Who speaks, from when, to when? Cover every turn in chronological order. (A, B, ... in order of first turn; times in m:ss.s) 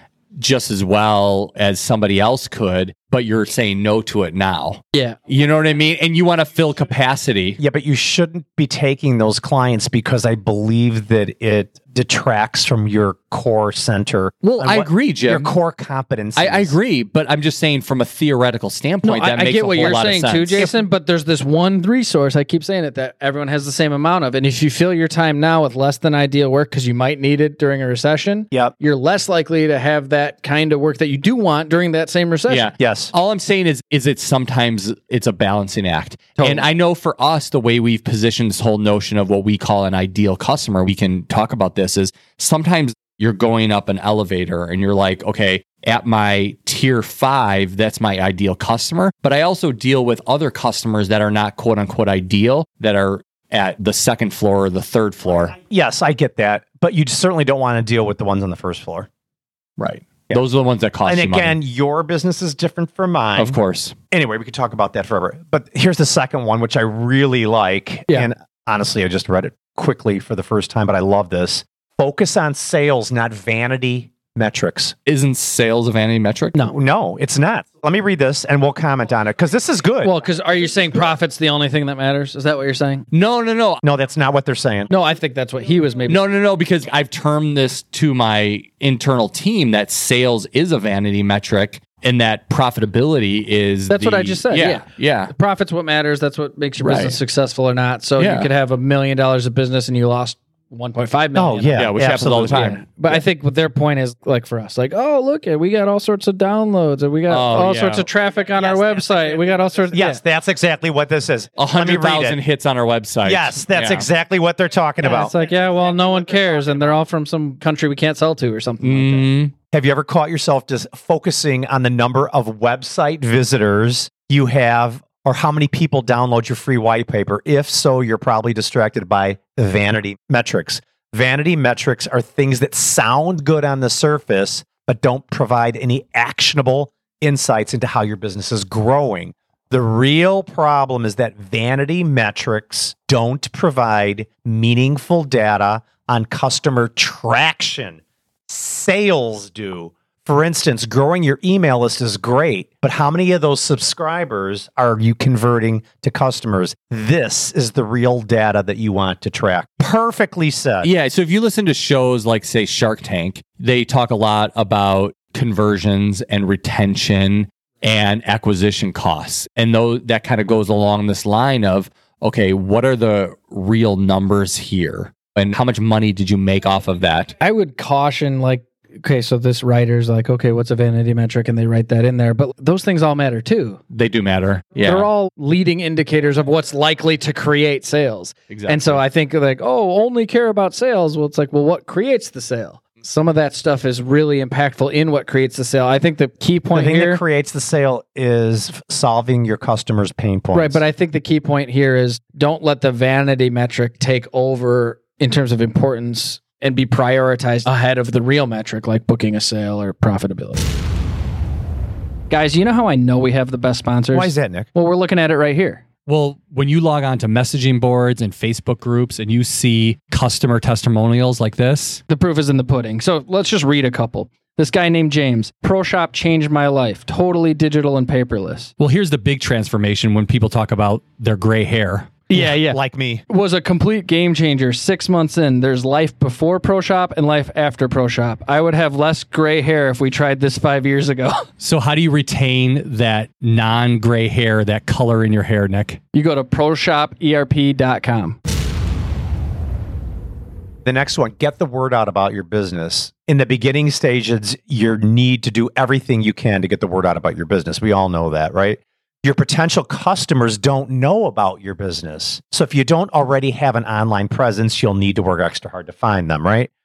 0:00.3-0:07.6 A
0:07.6-0:16.8 B
0:14.4-0:15.5 A
0:16.4-0:20.6 A
0:19.0-0:32.7 C
0:32.5-0:55.5 A
0:32.8-0:33.1 B
0:36.4-0:36.6 C
0:55.7-0:59.1 B
0:59.8-1:01.6 A
1:01.0-1:03.6 B
1:03.4-1:04.0 A
1:04.1-1:14.9 B
1:15.0-1:16.6 A
1:16.7-1:20.1 B
1:20.0-1:23.0 C
1:23.1-1:23.8 A
1:23.8-1:24.9 B
1:24.9-1:26.2 C
1:26.1-1:35.3 A
1:33.9-1:50.2 C
1:36.8-1:37.2 A
1:38.2-1:38.5 A
1:41.3-1:42.8 B
1:41.7-1:43.2 A
1:47.3-1:48.1 A
1:49.9-1:52.4 B
1:51.6-1:54.1 A
1:53.2-1:55.3 B
1:55.0-1:59.3 C
1:58.8-1:59.5 A
1:59.7-2:40.9 B
2:40.8-2:57.3 A
2:57.4-3:03.8 C
3:03.9-3:05.1 A
3:04.8-3:17.2 C
3:08.5-3:09.0 A
3:16.7-3:20.8 B
3:20.5-3:30.6 C
3:32.3-3:35.8 C
3:34.1-3:34.7 B
3:36.1-3:42.0 A
3:42.1-3:48.7 C
3:48.8-3:52.2 A
3:52.3-4:01.5 C
3:52.3-3:53.2 B
4:01.6-4:06.0 A
4:06.1-4:08.4 C
4:10.8-4:26.7 B